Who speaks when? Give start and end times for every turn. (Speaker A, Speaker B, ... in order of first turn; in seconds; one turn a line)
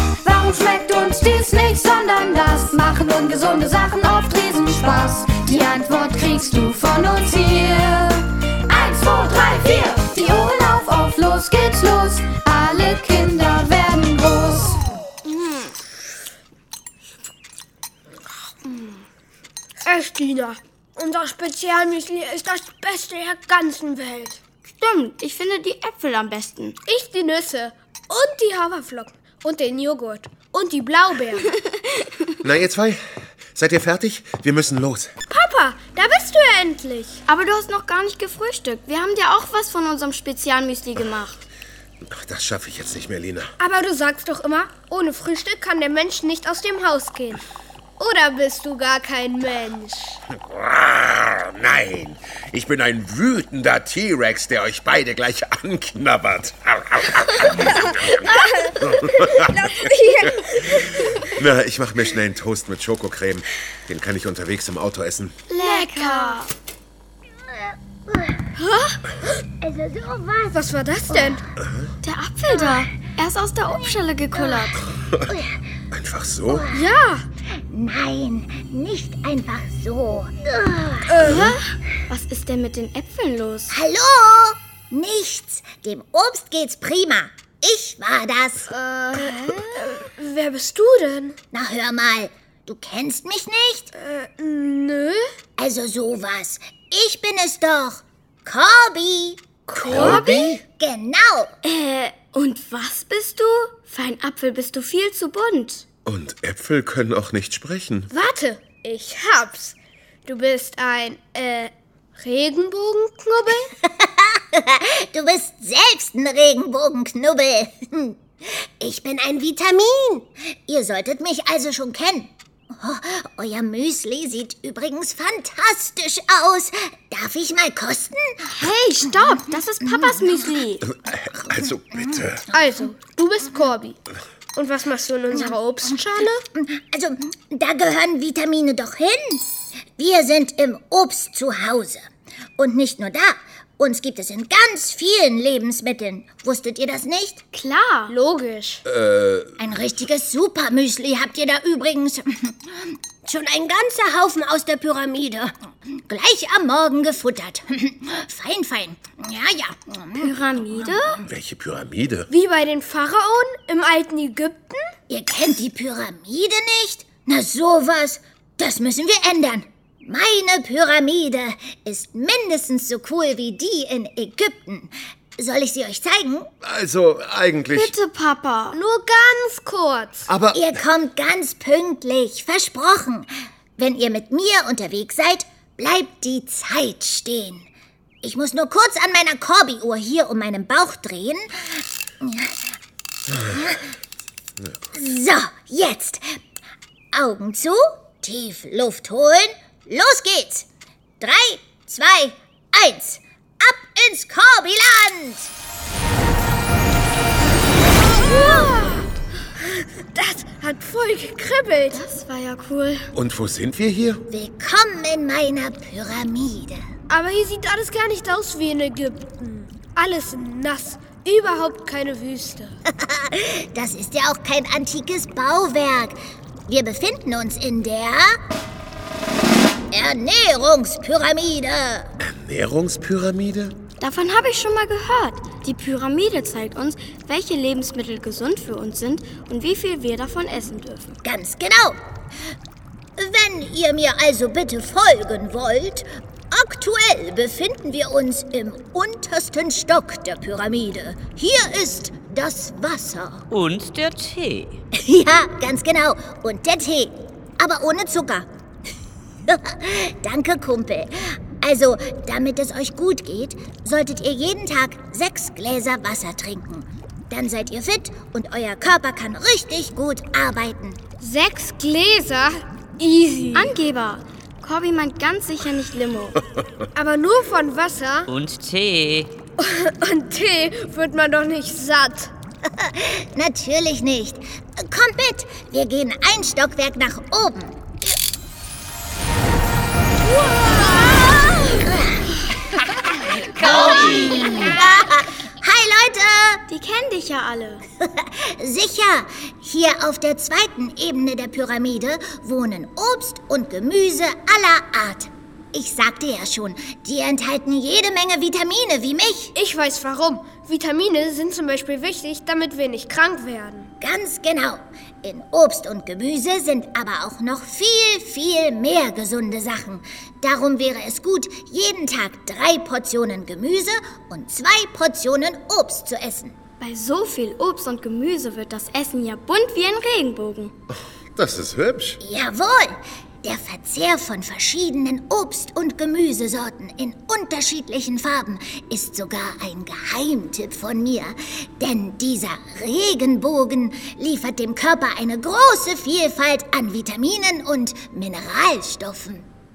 Speaker A: 0.2-14.8
Speaker B: 15.2-15.8
Speaker C: 19.9-24.4
Speaker B: 24.8-26.8
Speaker C: 26.9-31.5
Speaker D: 32.4-35.1
Speaker C: 35.3-37.2
Speaker B: 37.3-41.4
Speaker D: 42.1-43.5
Speaker C: 43.6-47.4
Speaker C: 48.0-50.2
Speaker D: 50.5-58.3
Speaker D: 58.8-59.9
Speaker C: 59.8-61.1
Speaker D: 60.4-65.3
Speaker B: 65.5-66.5
Speaker C: 65.6-66.4
Speaker E: 67.5-68.5
Speaker C: 68.7-69.0
Speaker E: 69.6-71.4
Speaker C: 70.5-71.4
Speaker D: 71.6-71.9
Speaker B: 72.0-74.8
Speaker E: 74.3-75.6
Speaker D: 75.0-75.3
Speaker D: 75.9-76.6
Speaker E: 76.5-77.0
Speaker C: 76.7-77.2
Speaker E: 77.7-81.4
Speaker C: 81.1-81.6
Speaker B: 82.1-83.7
Speaker E: 83.7-88.7
Speaker C: 88.7-91.4
Speaker B: 89.2-89.7
Speaker E: 91.5-93.9
Speaker C: 94.0-95.2
Speaker E: 95.6-101.5
Speaker D: 99.8-100.6
Speaker B: 99.9-100.6
Speaker B: 101.6-105.8
Speaker D: 106.1-108.1
Speaker C: 108.1-113.7
Speaker E: 113.8-130.6
Speaker B: 128.5-130.8
Speaker D: 130.8-132.4
Speaker E: 131.4-132.9
Speaker C: 132.5-134.0
Speaker C: 134.6-136.4
Speaker E: 135.3-139.4
Speaker E: 140.0-142.1
Speaker E: 142.6-147.4
Speaker B: 147.5-148.1
Speaker C: 148.1-148.8
Speaker D: 148.9-149.6
Speaker E: 149.6-161.3
Speaker B: 160.2-161.2
Speaker D: 161.3-162.3
Speaker C: 162.3-164.8
Speaker E: 165.1-176.5
Speaker D: 176.6-178.0
Speaker B: 177.7-178.8
Speaker C: 178.7-180.3
Speaker D: 180.3-180.6
Speaker E: 180.5-187.7
Speaker E: 188.2-192.8
Speaker E: 193.3-193.9
Speaker E: 194.9-196.4
Speaker E: 197.1-200.7
Speaker E: 201.2-205.5
Speaker C: 207.8-212.0
Speaker B: 211.9-213.1
Speaker D: 213.2-214.2
Speaker E: 214.3-216.8
Speaker C: 217.1-222.8
Speaker E: 222.9-228.4
Speaker E: 229.9-232.1
Speaker D: 232.2-233.8
Speaker B: 234.0-241.2
Speaker E: 241.2-242.0
Speaker E: 243.2-253.4
Speaker F: 253.5-254.8
Speaker E: 255.0-258.5
Speaker E: 259.5-271.0
Speaker C: 271.2-273.8
Speaker B: 273.5-276.4
Speaker C: 276.9-278.3
Speaker F: 278.3-279.3
Speaker C: 279.6-282.3
Speaker E: 282.8-288.0
Speaker C: 290.2-291.4
Speaker E: 291.1-292.2
Speaker E: 293.4-296.6
Speaker B: 296.7-297.8
Speaker E: 298.0-309.5
Speaker C: 309.6-313.9
Speaker E: 314.0-326.6
Speaker B: 326.8-330.7
Speaker D: 331.4-332.2
Speaker E: 332.2-349.5